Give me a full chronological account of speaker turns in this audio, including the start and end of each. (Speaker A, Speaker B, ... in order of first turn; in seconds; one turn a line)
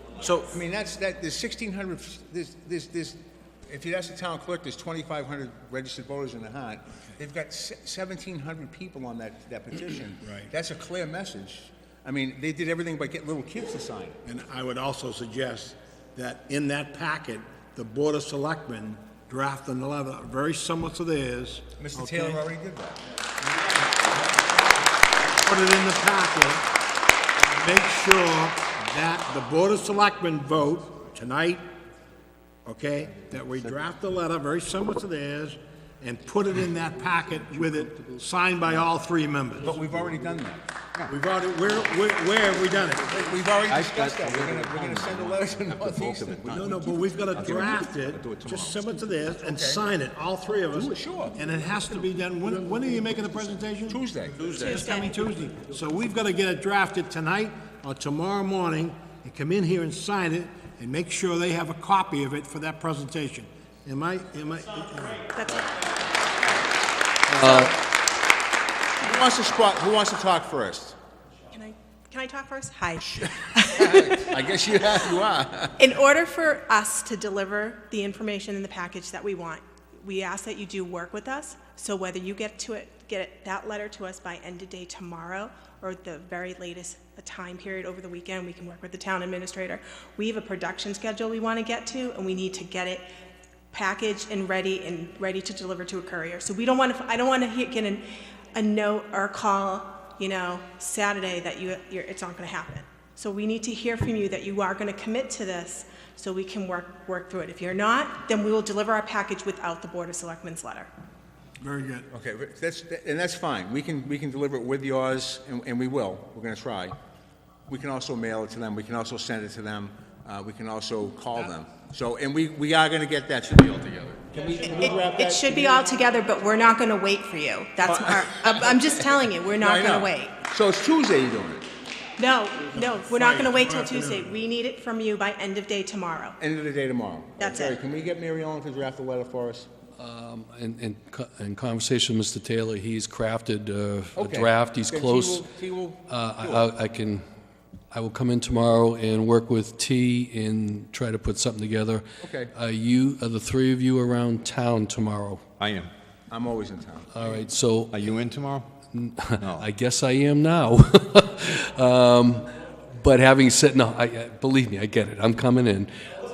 Speaker A: 0.2-14.2
Speaker B: 10.2-10.5
Speaker B: 14.2-22.4
Speaker A: 21.8-23.0
Speaker B: 25.3-26.6
Speaker B: 27.4-31.6
Speaker B: 32.6-39.8
Speaker A: 39.6-40.6
Speaker B: 41.1-43.1
Speaker A: 43.1-47.6
Speaker C: 43.7-46.6
Speaker B: 46.5-65.3
Speaker C: 47.3-49.0
Speaker A: 49.4-49.8
Speaker A: 50.7-51.4
Speaker A: 53.9-54.5
Speaker D: 54.6-55.0
Speaker D: 65.3-65.8
Speaker E: 67.3-67.7
Speaker A: 69.0-71.0
Speaker D: 71.5-74.3
Speaker A: 73.1-75.8
Speaker D: 75.8-93.0
Speaker D: 93.7-110.9
Speaker B: 111.6-112.1
Speaker A: 112.1-117.0
Speaker A: 117.7-125.8
Speaker D: 124.7-130.3
Speaker A: 127.8-131.7
Speaker D: 132.2-136.4
Speaker B: 132.7-134.3
Speaker A: 136.4-139.7
Speaker D: 137.4-137.8
Speaker E: 140.0-145.5
Speaker A: 144.2-146.7
Speaker E: 146.1-147.2
Speaker E: 147.9-152.0
Speaker A: 152.2-152.5
Speaker E: 152.5-155.4
Speaker C: 155.6-155.9
Speaker A: 156.3-157.1
Speaker E: 157.1-157.9
Speaker C: 157.9-158.7
Speaker E: 158.9-165.9
Speaker C: 159.4-159.7